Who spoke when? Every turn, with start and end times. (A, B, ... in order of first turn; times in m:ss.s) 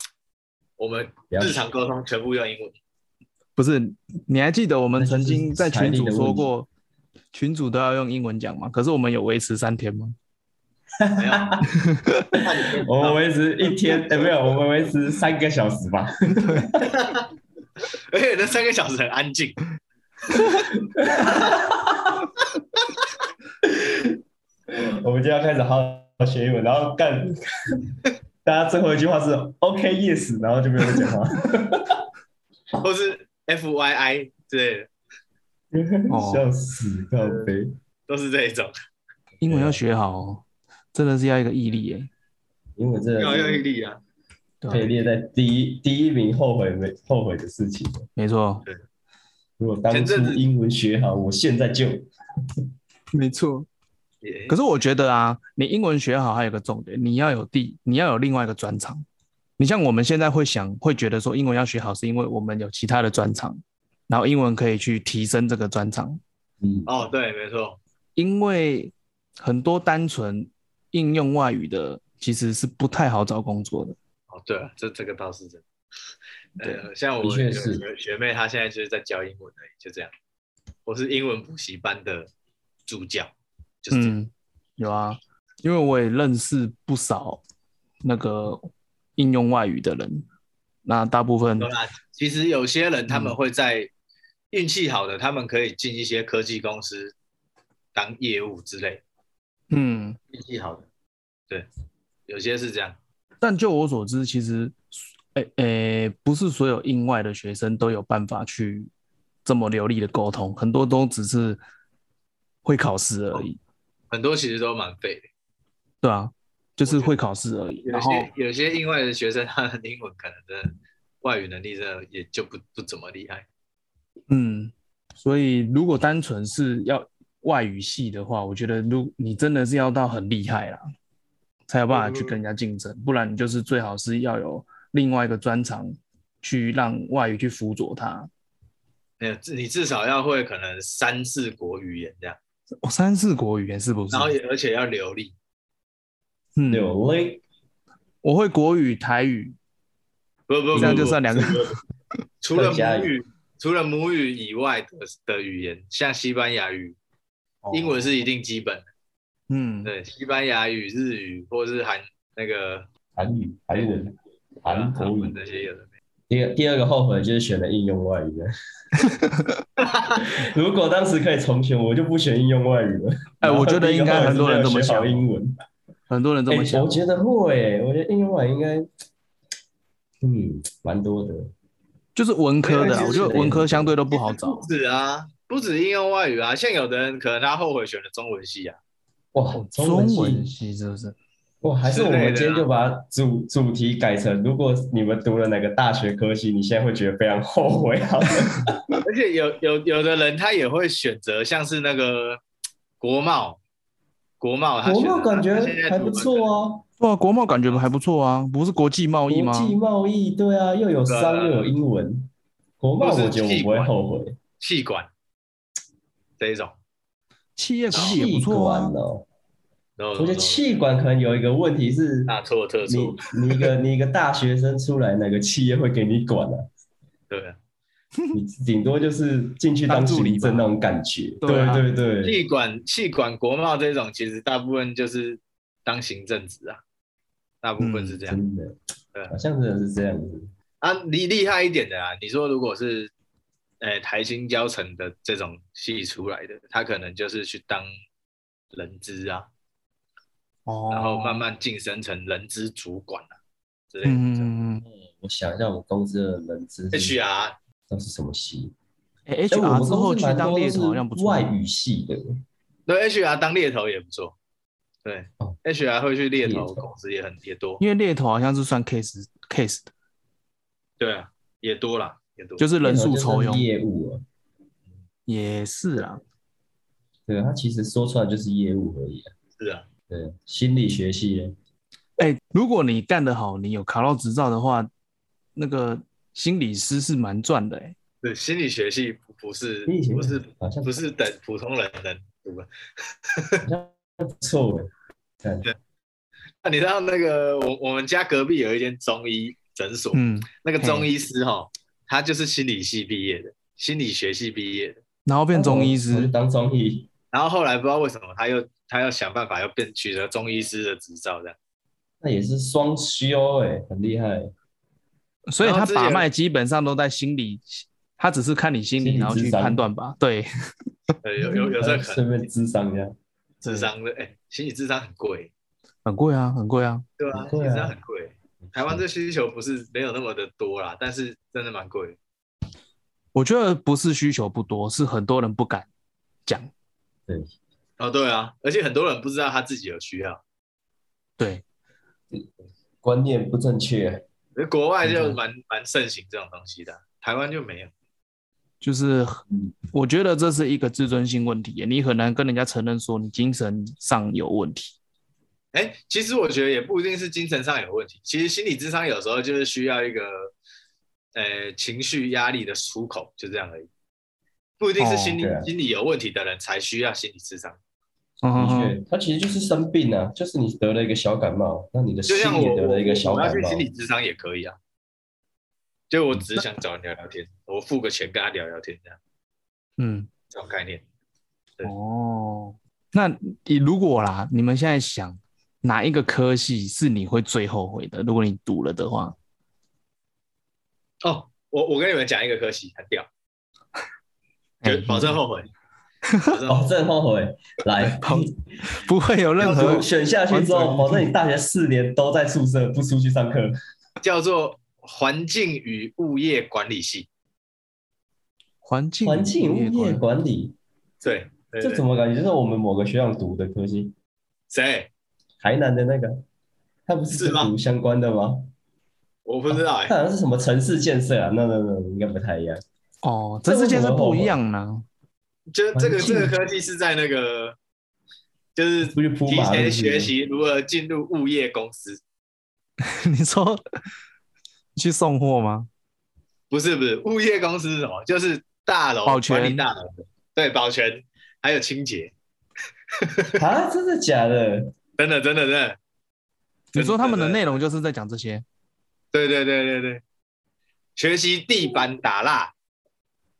0:00.8-0:02.8 A
0:01.3-0:01.6 B
0:03.6-0:06.7 C
0:04.9-0:06.5 B
0:07.3-0:10.2 C
0:11.0-0:11.7 B
0:11.2-0:11.6 A
0:11.8-0:12.3 C
0:12.4-0:14.3 A
0:12.8-0:17.0 B
0:16.4-0:16.7 C
0:16.8-0:17.3 A
0:18.1-0:19.6 A
0:20.7-0:22.3 B
0:21.3-0:21.5 A
0:23.6-0:24.2 B
0:24.7-0:27.9 B
0:28.4-0:32.0 B
0:32.8-0:34.9 A
0:35.7-0:37.8 B
0:36.1-0:36.5 C
0:37.2-0:37.5 A
0:38.1-0:38.7 A
0:39.4-0:42.1 C
0:39.4-0:39.8 B
0:42.8-0:43.6 B
0:43.2-0:44.0 A
0:44.6-0:44.9 C
0:44.7-0:48.0 B
0:48.2-0:48.6 C
0:49.6-0:52.1 B
0:49.9-0:50.4 A
0:53.1-0:53.7 C
0:54.2-0:54.6 A
0:54.5-0:59.0 C
0:59.6-1:06.2 C
1:06.6-1:06.9 B
1:06.8-1:07.8 A
1:08.2-1:14.0 C
1:14.3-1:15.6 A
1:16.6-1:20.1 A
1:17.2-1:17.8 B
1:20.8-1:22.3 A
1:22.9-1:23.3 A
1:23.8-1:24.2 A
1:23.9-1:27.4 C
1:28.0-1:30.2 C
1:30.8-1:31.7 C
1:31.6-1:33.9 A
1:33.1-1:33.4 C
1:34.5-1:37.1 A
1:37.9-1:39.0 A
1:39.7-1:40.2 C
1:40.3-1:40.9 A
1:42.3-1:43.0 A
1:43.4-1:48.9 C
1:49.4-1:51.6 C
1:52.6-1:53.6 C
1:54.1-1:55.3 A
1:56.0-1:58.3 C
1:56.8-1:57.2 A
1:57.8-2:03.4 A
2:04.3-2:10.8 C
2:11.7-2:18.3 C
2:11.9-2:12.4 A
2:19.2-2:22.4 A
2:22.8-2:24.3 C
2:24.1-2:25.3 A
2:26.6-2:26.9 C
2:26.7-2:27.4 B
2:28.2-2:29.6 C
2:30.5-2:31.8 A
2:30.7-2:31.1 B
2:30.7-2:31.6 C
2:32.4-2:37.0 A
2:32.5-2:33.1 B
2:37.6-2:38.0 C
2:37.7-2:38.8 A
2:39.5-2:39.9 C
2:39.8-2:42.9 A
2:43.2-2:45.4 B
2:44.6-2:45.9 A
2:46.3-2:48.5 B
2:49.8-2:50.2 A
2:50.2-2:55.5 B
2:53.4-2:55.3 C
2:56.1-2:56.9 C
2:56.5-2:58.9 B
3:00.2-3:01.5 B
3:02.1-3:04.6 C
3:02.6-3:03.4 A
3:02.8-3:04.0 B
3:04.1-3:08.8 A
3:09.3-3:10.5 B
3:09.5-3:11.2 C
3:11.6-3:18.8 B
3:11.8-3:12.6 A
3:19.0-3:22.4 A
3:23.0-3:23.6 A
3:24.4-3:26.5 A
3:24.8-3:26.8 B
3:27.0-3:29.8 C
3:29.3-3:34.4 B
3:31.1-3:31.7 A
3:33.0-3:33.9 A
3:34.6-3:35.1 A
3:36.4-3:36.8 A
3:37.6-3:38.9 C
3:37.9-3:39.2 B
3:40.0-3:40.6 A
3:40.2-3:42.3 B
3:42.3-3:43.2 A
3:42.8-3:46.7 B
3:47.3-3:47.6 A
3:48.3-3:52.4 B
3:49.9-3:50.7 C
3:51.4-3:51.8 C
3:52.2-3:56.8 A
3:57.6-3:58.4 A
3:57.8-3:58.2 C
3:58.2-3:58.8 B
3:59.3-4:00.5 B
4:00.8-4:03.1 A
4:03.8-4:07.9 A
4:08.7-4:09.5 A
4:10.6-4:11.4 C
4:10.9-4:13.3 A
4:13.9-4:14.5 A
4:14.0-4:14.8 C
4:14.8-4:17.2 B
4:16.9-4:17.6 A
4:17.9-4:18.7 B
4:19.3-4:21.5 C
4:19.5-4:22.4 B
4:22.9-4:24.4 A
4:25.0-4:27.8 A
4:26.4-4:26.8 B
4:27.8-4:29.9 C
4:31.0-4:32.6 A
4:32.6-4:33.7 C
4:32.8-4:34.2 B
4:35.3-4:36.2 C
4:37.3-4:39.3 B
4:39.6-4:39.8 A
4:40.1-4:41.6 B
4:42.2-4:44.9 C
4:45.6-4:48.0 C
4:48.2-4:52.7 A
4:49.8-4:50.9 B
4:53.3-4:53.6 A
4:53.6-4:54.9 B
4:55.4-4:55.7 B
4:56.6-5:05.0 A
5:00.1-5:01.1 C
5:05.2-5:06.3 C
5:05.5-5:07.1 B
5:07.3-5:11.6 A
5:12.2-5:14.5 B
5:15.5-5:20.5 C
5:15.6-5:16.2 A
5:19.0-5:19.8 B
5:21.2-5:22.4 A
5:21.4-5:23.1 B
5:23.6-5:25.5 A
5:23.6-5:23.9 C
5:26.0-5:27.0 C
5:27.2-5:32.2 A
5:27.3-5:28.0 B
5:28.6-5:29.0 B
5:33.3-5:35.9 C
5:38.0-5:40.4 A
5:41.4-5:41.6 C
5:43.0-5:44.2 B
5:44.6-5:47.9 A
5:45.0-5:45.4 C
5:48.8-5:55.0 C
5:55.7-6:00.5 A
6:01.3-6:03.9 A
6:04.8-6:07.8 A
6:05.0-6:05.4 C
6:05.4-6:05.7 B
6:08.4-6:09.0 C
6:08.5-6:13.8 B
6:12.3-6:14.8 A
6:16.1-6:19.2 A
6:20.0-6:20.3 C
6:20.5-6:21.0 A
6:21.8-6:29.3 C
6:31.2-6:33.3 A
6:34.8-6:35.4 C
6:34.8-6:35.7 A
6:36.5-6:36.9 A
6:36.7-6:38.6 B
6:38.1-6:41.3 C
6:39.6-6:43.7 B
6:44.2-6:47.3 A
6:48.8-6:50.2 C
6:49.2-6:50.7 B
6:51.2-6:52.0 A
6:51.8-6:54.1 B
6:54.7-6:55.1 A
6:55.6-6:56.4 B
6:57.1-6:58.7 B
6:57.3-6:57.7 A
6:59.4-7:00.1 A
6:59.7-7:02.8 B
7:03.2-7:05.0 C
7:03.6-7:04.6 B
7:05.7-7:07.8 A
7:05.9-7:06.5 B
7:08.8-7:12.2 A
7:09.0-7:10.3 B
7:13.0-7:13.8 C
7:15.0-7:15.9 C
7:16.7-7:22.3 A
7:19.2-7:19.8 C
7:23.2-7:23.6 A
7:23.6-7:24.9 B
7:25.2-7:26.0 A
7:26.9-7:28.6 C
7:26.9-7:27.8 A
7:29.3-7:30.2 A
7:31.2-7:32.7 A